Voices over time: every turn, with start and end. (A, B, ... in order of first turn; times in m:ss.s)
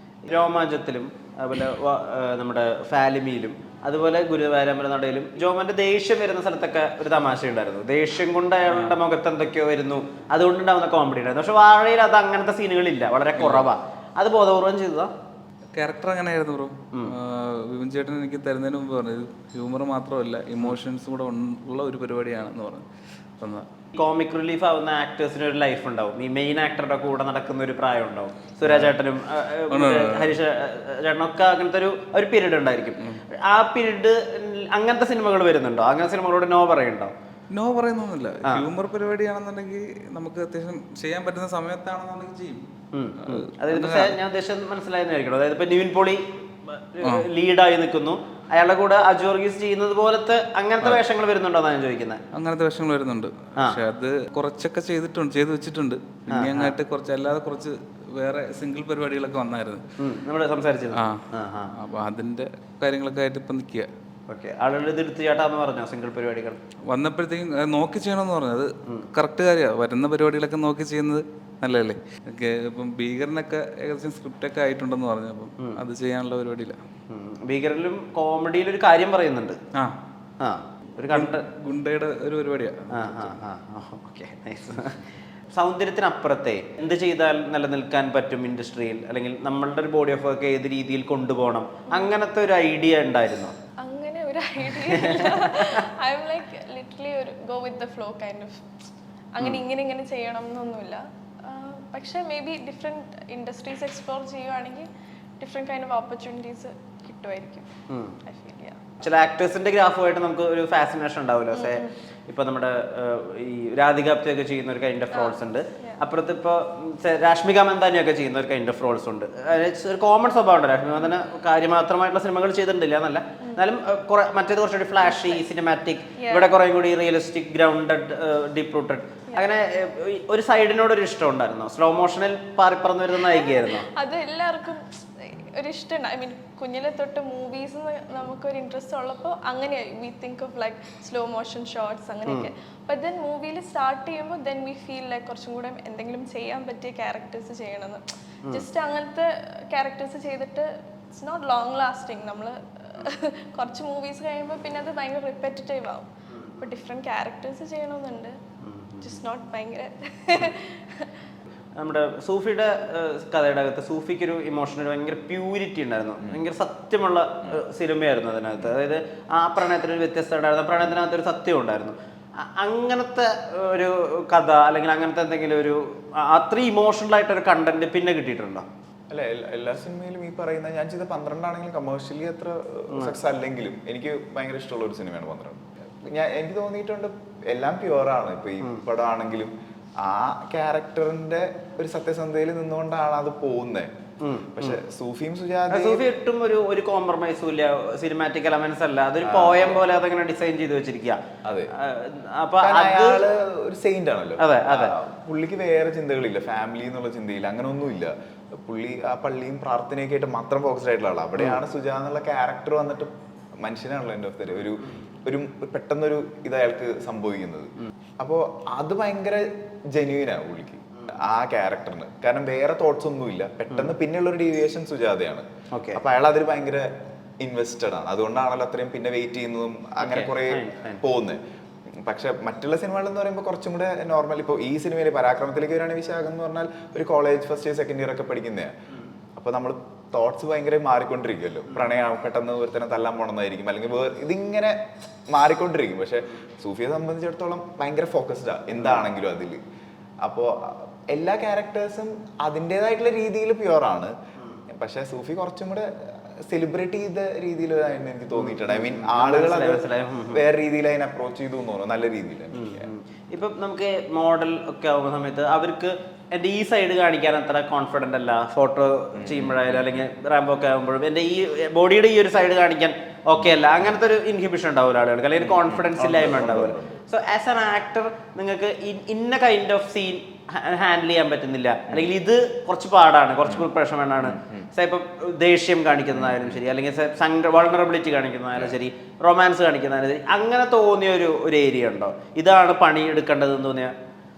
0:00.3-0:15.1 A
0:08.7-0:09.0 B
0:13.4-0:13.7 B
0:15.7-0:22.9 B
0:23.4-0:23.7 B
0:23.9-0:37.1 A
0:28.7-0:28.9 B
0:29.7-0:30.4 B
0:37.5-0:42.6 B
0:42.9-0:52.2 A
0:43.2-0:44.2 B
0:47.0-0:47.3 B
0:52.3-0:59.8 B
0:56.3-0:56.7 A
1:00.0-1:01.7 A
1:00.9-1:03.9 B
1:04.3-1:06.6 A
1:06.9-1:16.8 B
1:17.1-1:19.6 A
1:19.7-1:20.0 B
1:20.4-1:21.4 A
1:21.1-1:23.4 B
1:22.9-1:33.5 A
1:33.8-1:38.6 C
1:34.7-1:35.7 A
1:39.4-1:44.9 C
1:45.4-1:47.7 C
1:47.9-1:48.2 A
1:48.2-1:48.9 C
1:49.0-2:13.9 A
1:51.5-1:51.9 C
1:55.1-1:56.0 C
2:05.0-2:05.4 C
2:06.2-2:06.5 C
2:09.3-2:09.6 C
2:13.3-2:38.4 C
2:38.6-2:39.2 A
2:39.0-2:41.2 C
2:41.8-2:58.6 A
2:59.1-3:13.9 D
3:14.2-3:14.8 A
3:14.6-3:16.0 D
3:15.7-3:21.2 A
3:19.2-3:19.8 D
3:21.4-3:21.7 D
3:21.7-3:23.2 A
3:22.6-3:45.4 D
3:24.4-3:25.0 A
3:45.7-3:46.0 A
3:46.0-3:51.4 D
3:50.0-3:51.0 A
3:52.0-3:58.7 D
3:59.4-4:04.8 D
4:05.3-4:09.6 D
4:10.2-4:14.1 D
4:14.7-4:15.9 D
4:16.5-4:22.9 D
4:18.4-4:20.4 A
4:22.5-4:53.9 A
4:29.2-4:30.0 D
4:35.4-4:37.0 D
4:43.5-4:44.7 D
4:46.1-4:46.6 D